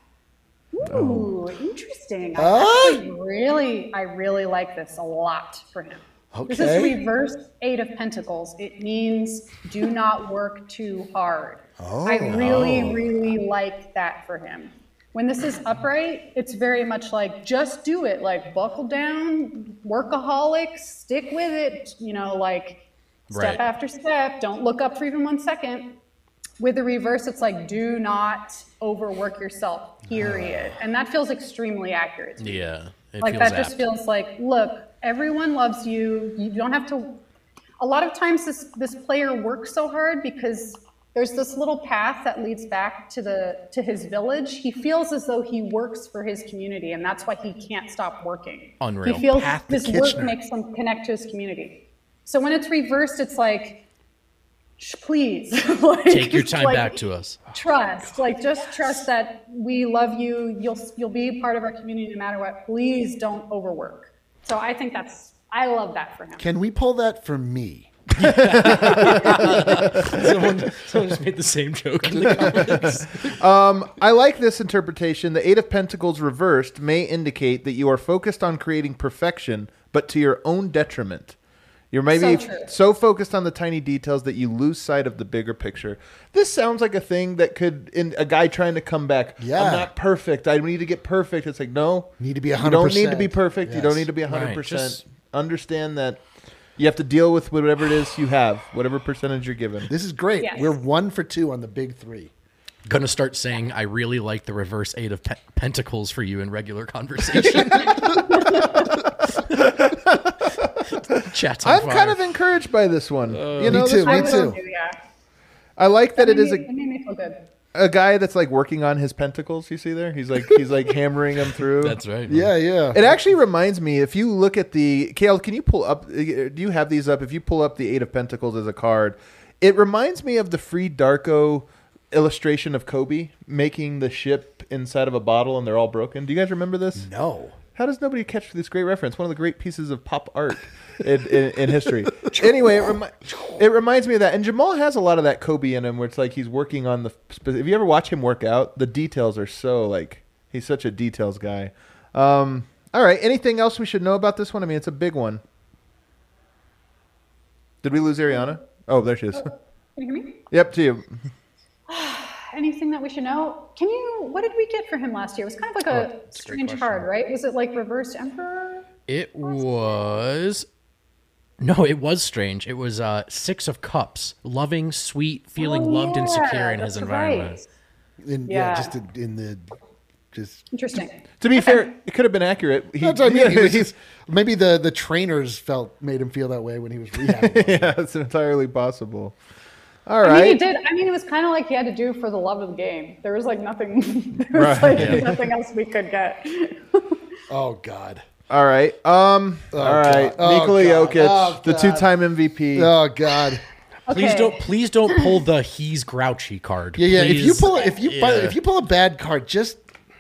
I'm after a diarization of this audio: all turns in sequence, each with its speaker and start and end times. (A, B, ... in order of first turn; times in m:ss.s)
0:00.7-0:22.8 A
0:00.9-0:01.3 B
0:02.4-0:03.1 C
0:06.3-0:07.0 C
0:11.8-0:13.1 C
0:23.3-0:23.6 D
0:23.3-0:25.9 A
0:26.6-0:32.7 A
0:30.1-0:30.6 C
0:32.4-0:33.8 D
0:33.2-0:37.2 A
0:37.8-0:53.8 A
0:48.8-0:50.3 D
0:49.4-0:50.3 C
0:54.8-0:57.0 A
0:56.1-0:57.4 D
0:57.5-1:06.5 A
1:06.4-1:10.4 C
1:08.2-1:13.2 D
1:08.2-1:10.3 B
1:12.1-1:13.4 C
1:12.2-1:21.4 B
1:21.9-1:36.2 B
1:22.1-1:22.7 A
1:29.4-1:29.9 C
1:32.2-1:34.1 C
1:34.3-1:35.0 D
1:36.8-1:39.9 B
1:39.9-1:42.3 C
1:40.4-1:40.8 A
1:42.8-1:48.0 D
1:47.4-1:48.0 C
1:47.4-1:49.0 A
1:49.3-1:54.6 B
1:51.2-1:52.2 D
1:53.3-1:53.8 D
1:53.6-1:54.6 C
1:54.0-1:55.0 A
1:55.8-1:56.7 B
1:56.2-1:57.4 A
1:57.7-2:02.0 B
2:01.8-2:02.5 D
2:02.3-2:03.2 C
2:02.9-2:17.1 B
2:17.0-2:17.6 C
2:17.8-2:35.4 B
2:22.3-2:23.3 C
2:37.8-2:39.5 B
2:39.3-2:40.4 A
2:40.5-2:41.1 B
2:41.9-2:48.8 A
2:45.9-2:47.0 D
2:49.1-2:50.7 D
2:49.4-2:50.2 A
2:51.6-2:57.6 D
2:55.6-2:57.7 A
2:58.2-2:59.7 C
2:58.5-2:58.9 A
3:00.3-3:00.7 C
3:00.7-3:01.9 A
3:01.4-3:03.9 B
3:03.0-3:08.0 C
3:07.3-3:09.4 B
3:10.1-3:10.6 B
3:10.2-3:17.2 A
3:14.5-3:15.4 B
3:14.9-3:15.3 D
3:17.5-3:18.2 C
3:18.5-3:23.0 B
3:19.7-3:22.1 C
3:22.7-3:23.6 C
3:24.1-3:24.6 A
3:24.1-3:28.6 D
3:27.0-3:29.8 C